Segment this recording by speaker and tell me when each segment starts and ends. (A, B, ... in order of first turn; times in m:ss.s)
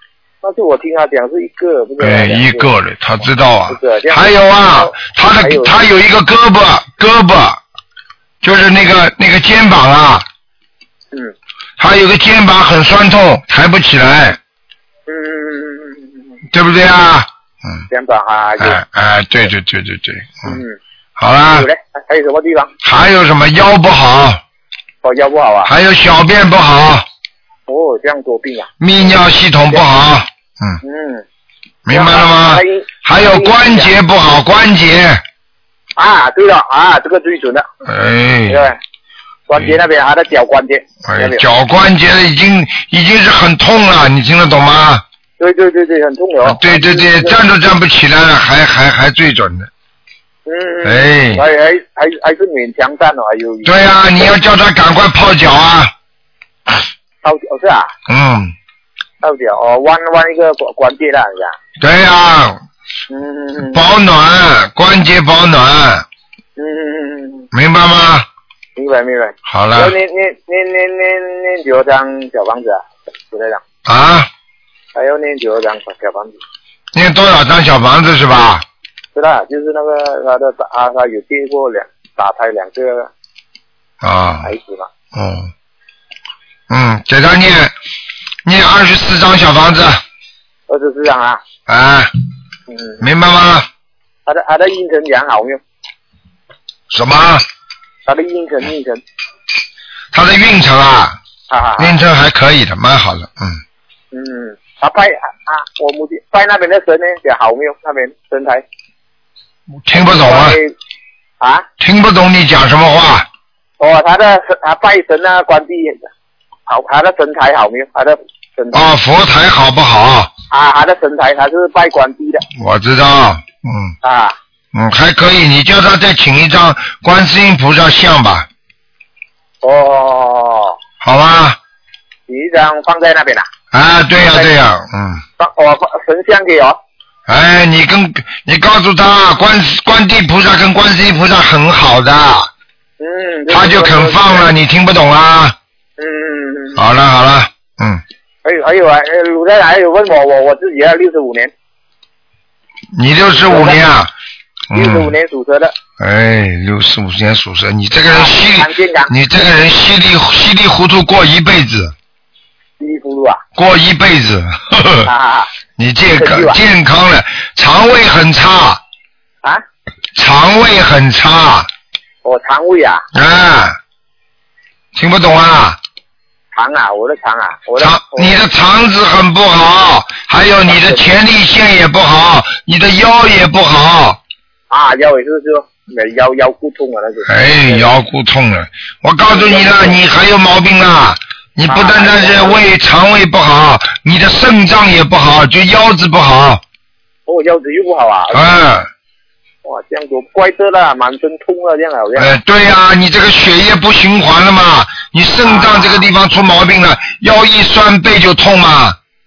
0:00.4-0:02.7 A
0:02.0-0:07.6 B
0:03.7-0:05.8 A
0:08.4-0:10.3 B
0:11.8-0:14.4 B
0:15.1-0:16.3 A
0:16.5-0:17.8 B
0:17.9-0:18.8 A
0:18.6-0:20.6 B
0:20.4-0:20.8 A
0:21.2-0:21.7 B
0:21.5-0:22.7 A
0:22.8-0:24.4 B
0:25.0-0:25.7 A
0:25.6-0:27.1 B
0:27.7-0:29.2 A
0:28.8-0:30.8 B
0:30.8-0:31.2 A
0:31.9-0:35.2 B
0:31.9-0:33.9 A
0:36.0-0:37.7 A
0:37.8-0:38.7 B
0:38.5-0:38.8 A
0:39.5-0:41.4 A
0:41.0-0:45.0 B
0:45.4-0:47.4 A
0:46.4-0:49.7 B
0:50.5-0:54.3 A
0:50.8-0:51.4 B
0:53.6-0:55.9 B
0:57.2-0:57.9 A
0:58.1-0:58.6 B
0:59.2-1:01.6 A
1:01.8-1:02.6 B
1:03.1-1:03.8 A
1:03.6-1:06.1 B
1:06.6-1:07.5 A
1:07.5-1:08.3 B
1:08.8-1:13.6 A
1:09.5-1:09.9 B
1:13.9-1:14.3 B
1:15.0-1:16.4 A
1:16.9-1:18.6 B
1:19.2-1:23.1 A
1:24.0-1:24.5 B
1:24.4-1:24.9 A
1:25.1-1:25.5 B
1:26.7-1:27.7 B
1:28.4-1:30.0 B
1:30.7-1:31.4 A
1:31.7-1:32.1 B
1:32.7-1:33.0 A
1:33.0-1:33.7 B
1:34.3-1:35.6 A
1:36.9-1:37.4 B
1:38.1-1:39.0 A
1:40.1-1:41.2 B
1:41.5-1:42.0 A
1:41.8-1:43.6 B
1:44.1-1:48.6 A
1:49.8-1:50.6 B
1:49.9-1:50.7 A
1:51.4-1:51.7 A
1:51.8-1:53.3 B
1:53.8-1:56.1 A
1:56.7-1:58.8 A
1:58.7-2:00.3 B
2:00.5-2:02.4 A
2:02.5-2:03.9 B
2:04.0-2:04.4 A
2:04.7-2:08.5 B
2:09.6-2:10.8 A
2:11.0-2:11.6 B
2:12.3-2:13.5 A
2:13.7-2:15.2 B
2:14.2-2:14.5 A
2:15.4-2:16.8 A
2:17.3-2:22.5 B
2:23.0-2:24.5 A
2:23.5-2:25.6 B
2:26.0-2:26.8 A
2:26.8-2:28.0 B
2:28.4-2:31.5 A
2:33.0-2:34.1 B
2:33.3-2:33.8 A
2:34.7-2:35.1 B
2:34.7-2:35.7 A
2:36.0-2:41.9 B
2:38.1-2:39.1 A
2:42.8-2:43.4 A
2:43.6-2:45.1 B
2:45.0-2:45.5 A
2:45.8-2:48.8 B
2:46.2-2:46.6 A
2:50.2-2:51.7 B
2:52.2-2:53.0 A
2:53.1-2:53.8 B
2:55.0-2:55.8 B
2:56.5-2:58.4 A
2:57.8-3:04.2 B
3:00.7-3:01.1 A
3:04.7-3:07.9 A
3:07.2-3:16.6 B
3:09.3-3:10.0 A
3:11.7-3:12.6 A
3:17.3-3:18.5 A
3:18.3-3:18.9 B
3:19.6-3:22.4 A
3:22.2-3:29.0 B
3:25.4-3:26.1 A